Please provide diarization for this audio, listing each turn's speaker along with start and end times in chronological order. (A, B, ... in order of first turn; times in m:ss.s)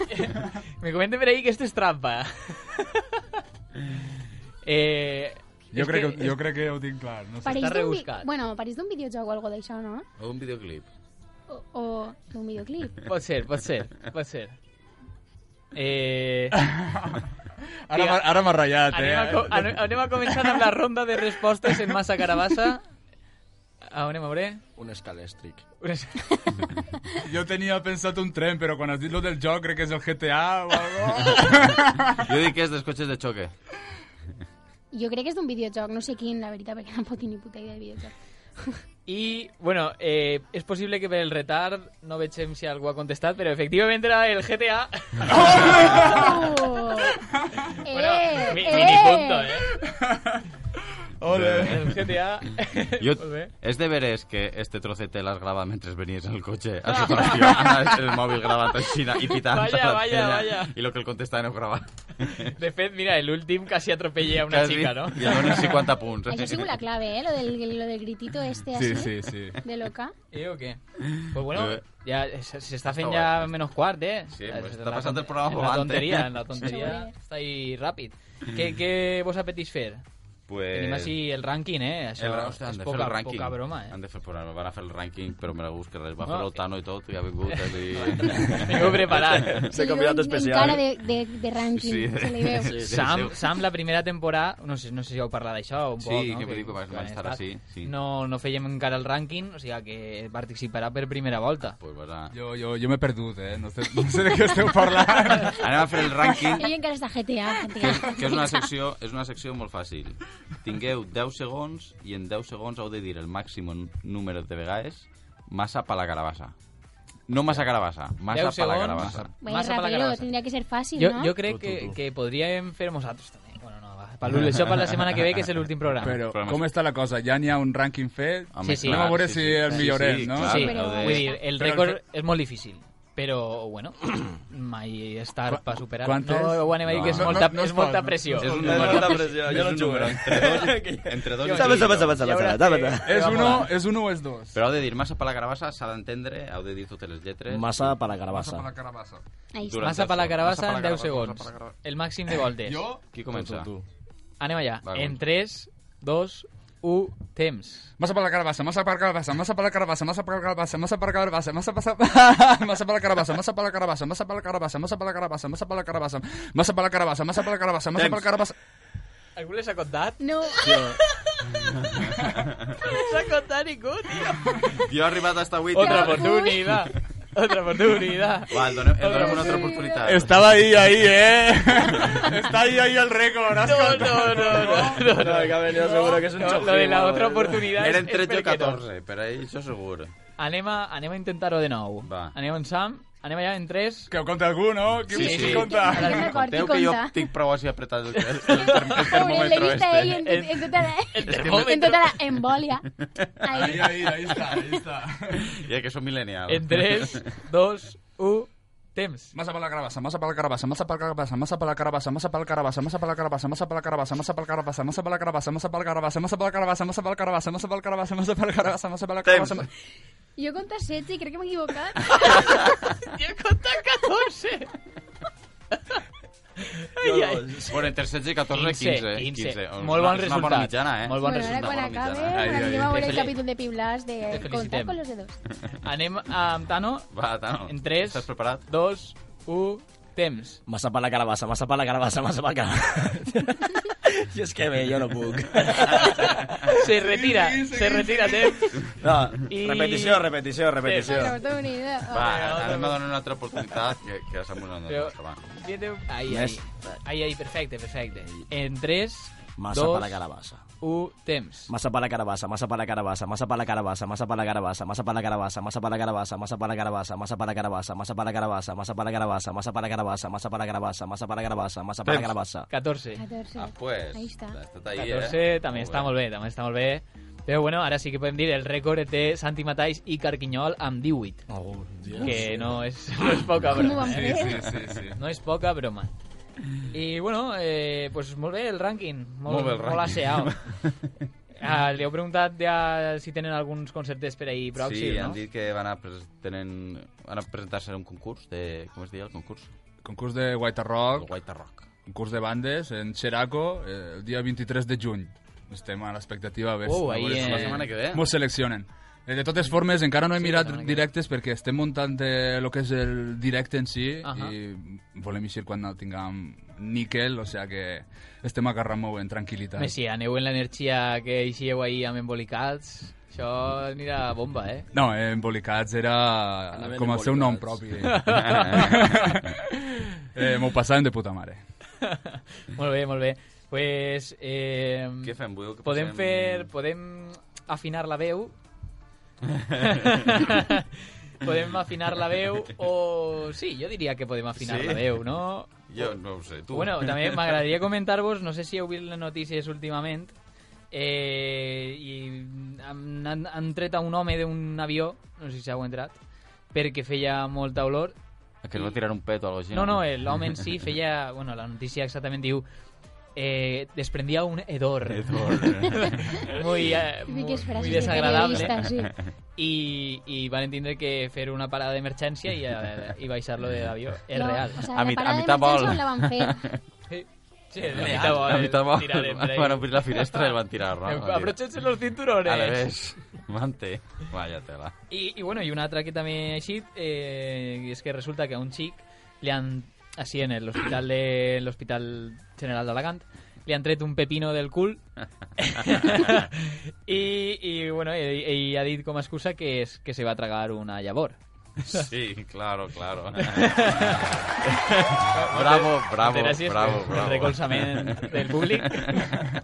0:00.1-0:03.0 A
0:04.6-0:06.4 A
0:05.7-0:07.7 B
0:07.4-0:10.0 C
0:07.5-0:08.3 A
0:10.2-0:10.9 D
0:11.5-0:13.0 C
0:13.0-0:14.5 A
0:15.7-0:16.6 A
0:16.5-0:17.3 B
0:17.9-0:19.8 B
0:17.9-0:18.2 A
0:18.9-0:22.8 A
0:23.9-0:24.6 A
0:24.8-0:25.6 E
0:25.8-0:26.7 A
0:27.2-0:32.2 B
0:32.2-0:33.5 D
0:34.9-0:38.8 C
0:39.1-0:46.2 A
0:45.3-0:46.3 B
0:45.9-0:47.1 C
0:47.8-0:49.6 C
0:47.9-0:49.8 A
0:49.9-0:50.4 B
0:51.2-0:52.1 D
0:51.3-0:51.7 B
0:51.3-0:53.5 A
0:53.0-1:02.5 D
0:56.9-0:57.9 A
0:58.8-1:00.7 A
1:02.6-1:05.8 A
1:04.4-1:06.7 D
1:06.3-1:10.1 C
1:08.7-1:09.6 B
1:10.3-1:10.8 A
1:11.2-1:11.8 D
1:11.3-1:20.0 A
1:12.9-1:13.5 D
1:14.3-1:17.0 D
1:16.6-1:17.1 C
1:20.5-1:21.1 D
1:20.7-1:23.9 A
1:22.2-1:29.6 D
1:26.2-1:26.5 A
1:27.5-1:29.7 A
1:28.0-1:28.8 E
1:29.6-1:30.8 E
1:29.7-1:32.7 C
1:31.7-1:33.3 D
1:32.7-1:33.0 E
1:32.8-1:41.8 A
1:36.0-1:37.9 D
1:41.8-1:42.3 D
1:42.3-1:45.7 B
1:45.4-1:46.7 D
1:46.2-1:48.7 C
1:47.8-1:56.5 D
1:57.3-1:59.4 D
1:58.3-2:00.3 A
1:59.0-1:59.3 B
1:59.4-2:01.3 C
2:01.0-2:06.2 A
2:01.4-2:02.0 E
2:05.9-2:06.6 D
2:06.0-2:10.8 B
2:08.5-2:11.4 D
2:08.6-2:09.9 A
2:10.4-2:11.4 C
2:10.4-2:19.4 A
2:11.5-2:12.0 B
2:15.5-2:19.0 B
2:16.8-2:17.5 D
2:18.4-2:22.2 D
2:18.6-2:23.4 E
2:21.4-2:23.8 A
2:23.0-2:24.6 B
2:24.5-2:27.9 D
2:27.5-2:28.7 E
2:28.3-2:29.2 B
2:29.5-2:29.9 C
2:29.6-2:31.8 D
2:29.8-2:32.9 A
2:32.6-2:33.0 B
2:33.1-2:33.7 D
2:33.3-2:33.8 E
2:34.4-2:37.9 A
2:34.8-2:35.2 D
2:38.0-2:48.5 B
2:48.0-2:48.2 D
2:49.4-2:50.2 A
2:50.2-2:50.9 C
2:50.6-2:51.0 E
2:51.0-2:51.4 A
2:51.9-2:52.5 D
2:52.8-2:54.8 A
2:54.8-2:56.6 D
2:55.7-2:59.8 A
2:55.8-2:56.6 C
2:58.5-3:00.5 D
2:59.1-3:00.0 C
3:00.0-3:05.0 B
3:03.5-3:08.8 A
3:05.1-3:07.6 E
3:07.8-3:10.1 D
3:10.4-3:14.1 A
3:12.0-3:12.3 D
3:14.1-3:16.3 B
3:15.1-3:20.3 D
3:15.2-3:16.2 A
3:15.2-3:17.3 C
3:18.2-3:19.2 A
3:18.9-3:22.9 C
3:20.2-3:22.2 A
3:21.2-3:21.9 D
3:23.4-3:24.8 C
3:23.5-3:25.4 B
3:25.6-3:27.2 D
3:26.5-3:29.3 A
3:29.3-3:39.7 B
3:39.2-3:39.7 D
3:40.4-3:42.8 C
3:43.1-3:44.7 A
3:46.6-3:47.6 A
3:47.0-3:47.7 E
3:47.7-3:52.5 D
3:48.5-3:51.7 A
3:51.2-3:55.4 C
3:52.3-3:53.1 B
3:52.9-3:53.3 A
3:54.3-3:55.0 A
3:55.8-3:57.0 A
3:57.1-3:58.6 D
3:57.7-4:00.6 A
4:00.7-4:06.0 E
4:05.7-4:08.8 A
4:06.9-4:08.8 B
4:09.0-4:11.4 E
4:09.5-4:10.2 A
4:10.8-4:11.4 A
4:11.0-4:12.4 C
4:12.1-4:15.4 D
4:12.2-4:13.0 A
4:14.9-4:20.2 A
4:16.3-4:17.0 E
4:19.6-4:20.6 E
4:20.8-4:21.7 A
4:21.7-4:32.7 E
4:32.0-4:32.3 D
4:32.7-4:33.2 A
4:33.2-4:34.6 C
4:33.5-4:36.1 D
4:34.9-4:41.4 A
4:41.5-4:42.8 E
4:42.2-4:44.5 A
4:43.7-4:44.7 C
4:44.0-4:45.2 B
4:45.1-4:46.1 A
4:46.9-4:50.5 A
4:49.5-4:50.8 D
4:51.6-4:55.4 A
4:54.8-4:59.7 D
5:00.0-5:01.3 B
5:01.1-5:01.9 D
5:02.0-5:19.9 B
5:06.8-5:07.9 A
5:07.3-5:08.2 D
5:10.3-5:11.1 A
5:14.2-5:14.5 A
5:19.8-5:24.9 A
5:24.9-5:31.6 B
5:26.7-5:27.8 E
5:28.0-5:29.0 A
5:28.3-5:29.1 D
5:32.0-5:35.3 A
5:35.2-5:36.7 D
5:35.8-5:38.5 A
5:39.5-5:40.5 D
5:39.8-5:40.9 A
5:41.4-5:46.1 A
5:44.6-5:45.0 D
5:45.8-5:47.6 D
5:46.7-5:50.3 A
5:50.9-5:56.2 A
5:56.7-5:58.1 A
5:58.6-6:00.6 D
5:59.7-6:02.6 A
6:03.4-6:08.7 A
6:05.1-6:06.6 D
6:07.3-6:09.1 C
6:07.8-6:09.1 D
6:09.6-6:14.8 A
6:14.3-6:16.6 C
6:14.8-6:16.8 D
6:17.1-6:22.9 A
6:17.9-6:21.6 D
6:18.0-6:18.4 E
6:22.4-6:24.9 D
6:25.1-6:35.0 A
6:35.6-6:41.4 A
6:41.8-6:49.4 D
6:43.4-6:44.3 A
6:45.3-6:49.0 A